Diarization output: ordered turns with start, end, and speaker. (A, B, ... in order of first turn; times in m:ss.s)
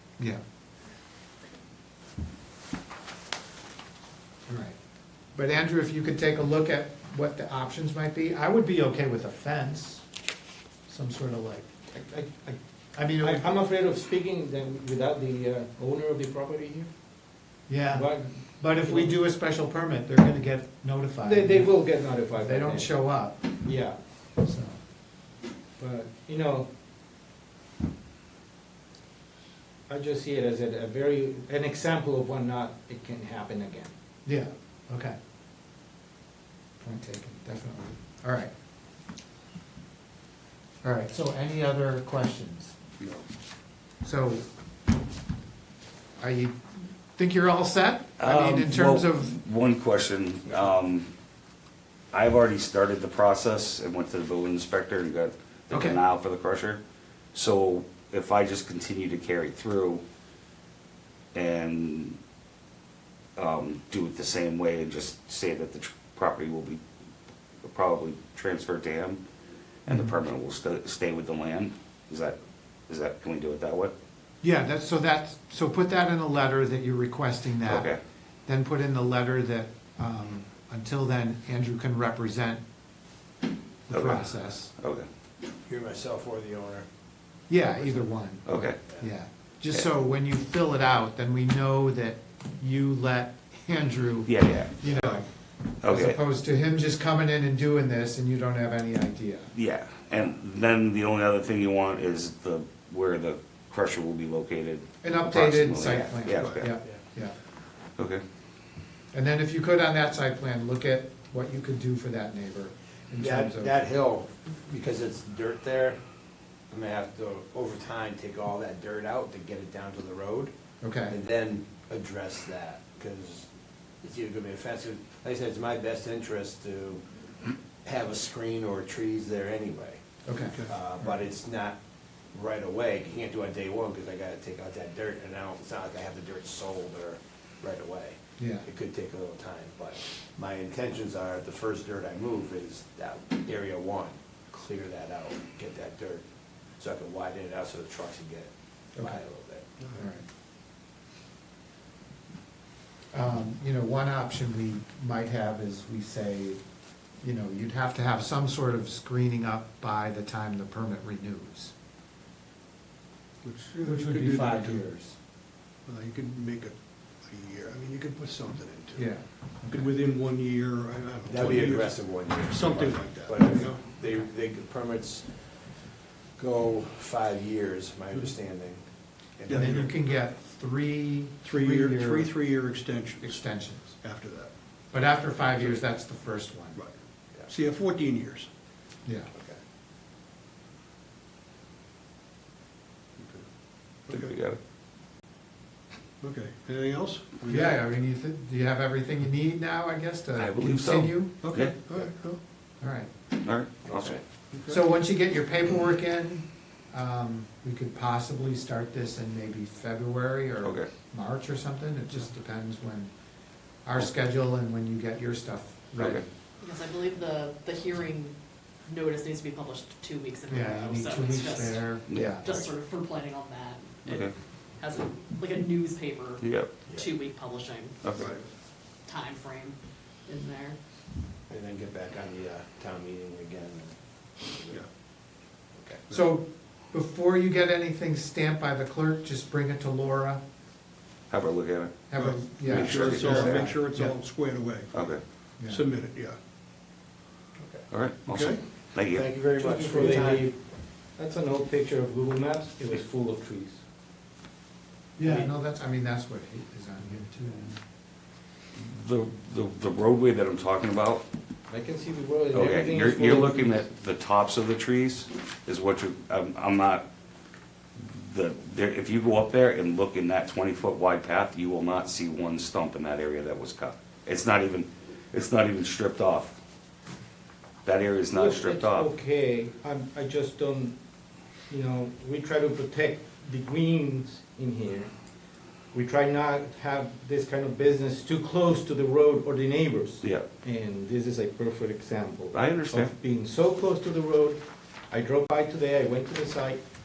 0:04.5-0:04.8 A
0:05.3-0:10.1 A
0:10.9-0:11.7 A
0:11.9-0:16.9 B
0:12.9-0:13.5 A
0:17.7-0:24.8 A
0:17.9-0:19.2 B
0:21.2-0:24.0 B
0:25.8-0:26.7 B
0:29.9-0:34.0 B
0:34.2-0:35.2 A
0:36.8-0:38.5 A
0:40.8-0:42.8 A
0:44.0-0:44.4 A
0:46.2-0:49.3 A
0:48.2-0:51.1 C
0:52.1-0:56.8 C
0:55.7-0:56.0 A
0:57.3-1:00.0 C
1:01.3-1:02.2 C
1:03.4-1:06.8 C
1:07.6-1:09.2 C
1:09.8-1:12.4 C
1:09.9-1:10.2 A
1:12.9-1:13.9 C
1:14.4-1:17.9 A
1:17.7-1:18.0 C
1:18.5-1:22.6 A
1:23.9-1:24.7 A
1:23.9-1:25.1 C
1:25.6-1:26.9 D
1:27.5-1:39.5 A
1:27.8-1:28.0 D
1:28.4-1:28.8 C
1:34.3-1:34.8 C
1:35.8-1:36.2 C
1:39.5-1:46.7 C
1:45.0-1:47.3 A
1:45.9-1:47.0 D
1:46.4-1:46.7 E
1:48.0-1:48.2 C
1:49.1-1:53.8 A
1:53.2-1:56.0 D
1:56.7-2:00.5 D
2:00.8-2:01.2 A
2:01.1-2:03.5 D
2:04.0-2:07.0 D
2:07.8-2:11.8 D
2:10.2-2:11.1 A
2:10.4-2:10.7 E
2:12.3-2:26.2 D
2:18.4-2:18.7 A
2:26.8-2:29.7 D
2:29.9-2:30.2 A
2:33.1-2:36.6 A
2:37.2-2:41.7 A
2:43.4-2:44.8 E
2:43.8-2:45.2 A
2:45.8-2:53.9 E
2:49.0-2:49.9 A
2:51.2-2:59.9 D
2:59.5-2:59.9 E
2:59.5-3:02.3 A
3:01.4-3:04.8 E
3:03.2-3:04.0 A
3:04.9-3:06.9 A
3:06.7-3:08.5 E
3:09.0-3:09.3 A
3:09.3-3:09.6 D
3:13.2-3:13.5 E
3:14.1-3:14.3 E
3:14.1-3:14.6 C
3:16.2-3:17.8 E
3:17.5-3:21.4 A
3:20.4-3:21.8 C
3:21.4-3:22.4 E
3:22.8-3:23.1 A
3:23.4-3:24.2 C
3:23.9-3:24.2 D
3:24.5-3:24.8 E
3:24.7-3:33.1 A
3:30.6-3:30.9 C
3:33.8-3:36.3 A
3:36.0-3:36.2 C
3:36.6-3:48.1 F
3:40.5-3:42.5 A
3:42.1-3:42.7 C
3:44.0-3:44.3 C
3:46.4-3:46.9 C
3:48.0-3:48.3 C
3:48.2-3:48.4 D
3:48.2-3:48.5 E
3:48.9-3:50.8 F
3:51.5-3:54.8 D
3:55.7-3:56.0 D
3:56.1-4:00.4 A
4:01.3-4:03.7 C
4:02.1-4:04.2 A
4:02.2-4:06.4 E
4:04.9-4:05.2 C
4:05.6-4:05.8 A
4:07.6-4:07.9 D
4:07.9-4:09.3 C
4:08.2-4:08.6 E
4:09.1-4:10.5 D
4:09.6-4:13.8 B
4:15.2-4:17.8 A
4:15.2-4:15.5 B
4:18.8-4:21.2 C
4:21.7-4:23.8 B
4:22.5-4:27.1 C
4:28.0-4:36.5 C
4:37.8-4:39.1 C
4:38.3-4:41.0 B
4:41.7-4:45.2 B
4:45.9-4:56.8 B
4:52.5-4:53.1 C